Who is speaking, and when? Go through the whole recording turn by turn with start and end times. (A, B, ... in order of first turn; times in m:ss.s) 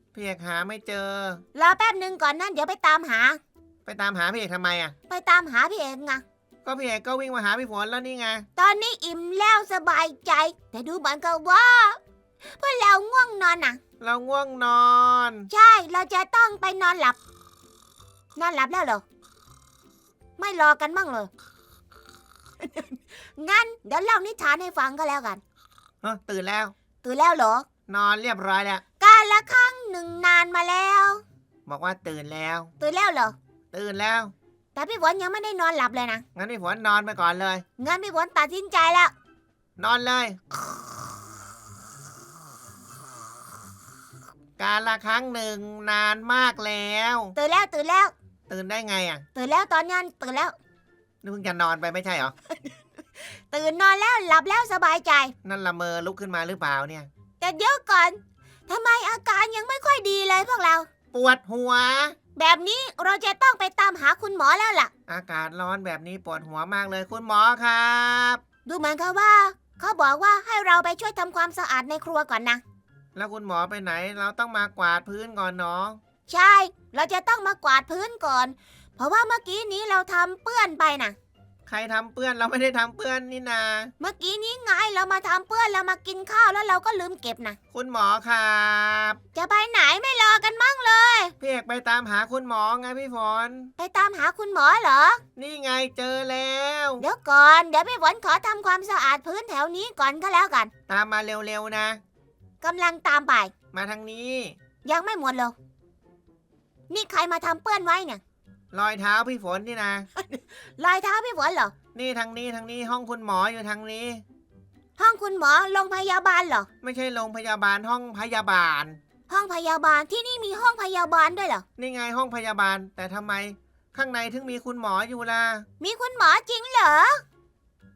0:00.1-0:01.4 A
0:01.5-0:03.4 B
0:03.9-0:05.0 A
0:05.1-0:06.2 B
0:06.6-0:08.5 A
0:08.6-0:12.0 B
0:12.6-0:13.8 B
0:14.0-0:15.5 A
0:15.5-0:17.2 B
0:18.4-0:19.0 B
0:20.4-0:21.3 B
0:22.6-0:25.4 B
0:26.0-0:26.7 A
0:27.0-0:27.7 B
0:27.9-0:28.8 A
0:29.0-0:31.2 B
0:31.7-0:32.7 A
0:32.8-0:33.4 B
0:33.7-0:34.3 A
0:34.8-0:36.2 B
0:36.4-0:37.6 A
0:37.8-0:39.1 B
0:39.8-0:40.4 A
0:44.6-0:47.4 A
0:47.4-0:48.1 B
0:48.5-0:49.2 A
0:49.4-0:50.6 B
0:51.2-0:52.3 A
0:53.3-0:55.3 B
0:55.4-0:57.1 A
0:57.4-1:00.9 B
1:01.1-1:02.2 A
1:02.4-1:04.9 B
1:05.1-1:08.4 A
1:08.6-1:12.6 B
1:13.2-1:16.0 A
1:16.3-1:21.2 B
1:21.7-1:23.9 A
1:24.0-1:27.6 B
1:27.7-1:29.2 A
1:29.4-1:31.3 B
1:31.4-1:33.7 A
1:33.8-1:35.2 B
1:35.4-1:37.1 A
1:37.0-1:40.7 B
1:40.9-1:42.0 A
1:42.6-1:43.5 B
1:43.7-1:44.6 A
1:44.8-1:45.6 B
1:46.9-1:48.2 B
1:48.7-1:50.1 A
1:50.2-1:51.7 B
1:51.9-1:54.2 A
1:55.0-1:56.7 B
1:56.8-1:59.0 A
1:59.3-2:01.6 B
2:01.8-2:05.7 A
2:05.8-2:07.2 B